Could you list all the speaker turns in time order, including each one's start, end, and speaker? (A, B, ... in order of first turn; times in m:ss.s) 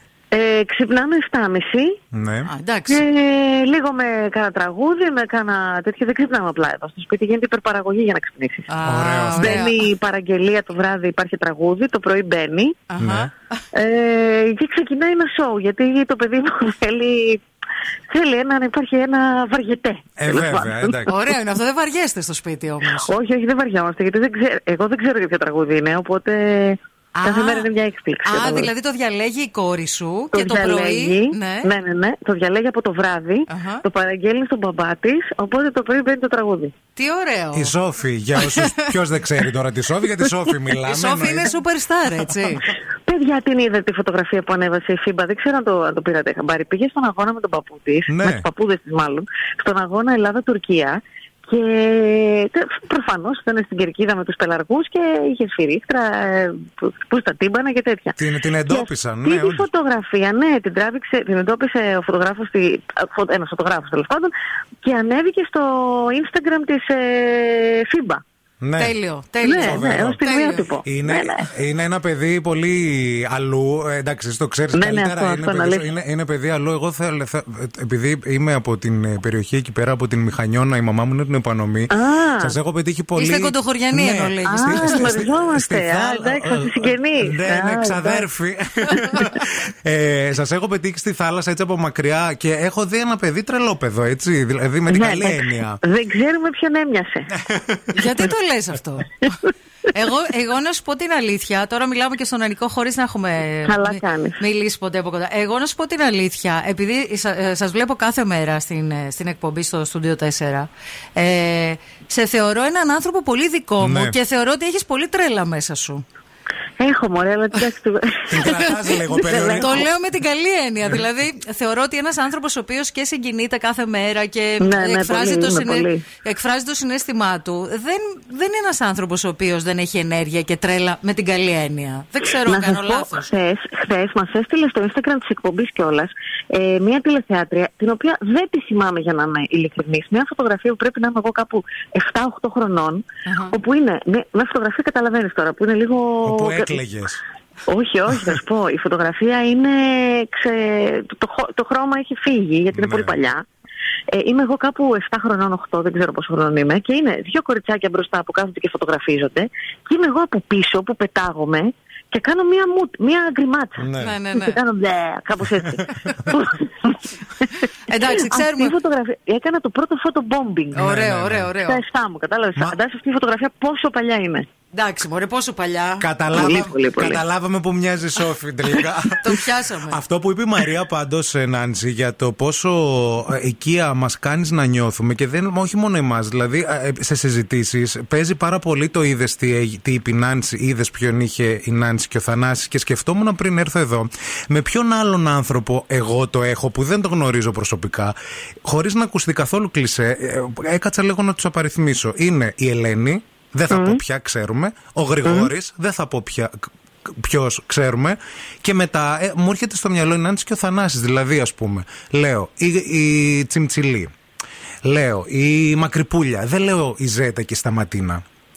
0:00.3-0:02.0 A
0:02.1-0:02.5 B
0:02.5-0:03.1 C
0:02.9-0:08.7 A
0:08.7-0:09.9 C
0:08.9-0:09.6 B
0:09.4-0:12.8 A
0:12.9-0:13.3 C
0:13.0-0:13.3 B
0:13.7-0:17.4 A
0:18.1-0:21.2 A
0:20.2-0:21.1 B
0:21.1-0:23.1 C
0:23.0-0:28.7 A
0:27.2-0:27.7 C
0:28.2-0:31.7 C
0:30.3-0:36.7 A
0:33.5-0:33.8 C
0:37.0-0:37.7 C
0:37.6-0:41.5 B
0:38.4-0:38.9 C
0:40.8-0:42.8 C
0:43.1-1:04.3 A
0:48.1-0:48.5 B
0:58.2-0:59.7 B
1:04.8-1:08.2 A
1:08.6-1:08.9 B
1:08.8-1:10.7 C
1:09.4-1:11.5 A
1:09.6-1:10.2 B
1:10.8-1:35.8 B
1:14.7-1:15.9 A
1:21.9-1:22.6 A
1:23.2-1:25.2 C
1:24.4-1:28.3 A
1:34.9-1:37.3 A
1:37.4-1:38.2 B
1:37.9-1:56.0 C
1:43.7-1:44.4 A
1:53.8-1:54.2 B
1:56.8-1:58.5 A
1:58.3-1:59.9 B
1:58.4-1:59.0 C
1:59.0-1:59.8 A
1:59.5-2:13.3 C
2:04.6-2:06.0 A
2:12.5-2:26.8 A
2:23.3-2:23.6 C
2:26.2-2:27.2 B
2:27.7-2:33.4 A
2:32.7-2:33.2 B
2:34.1-2:47.5 A
2:43.8-2:44.2 B
2:44.0-2:44.6 C
2:47.8-2:48.7 C
2:48.1-2:50.9 A
2:50.8-2:51.5 B
2:50.8-2:51.8 C
2:51.6-2:54.5 A
2:54.7-2:56.1 C
2:56.0-3:34.1 B
2:56.3-2:57.2 A
2:59.2-3:00.0 C
3:23.7-3:24.0 A
3:25.2-3:25.5 A
3:34.8-3:38.2 B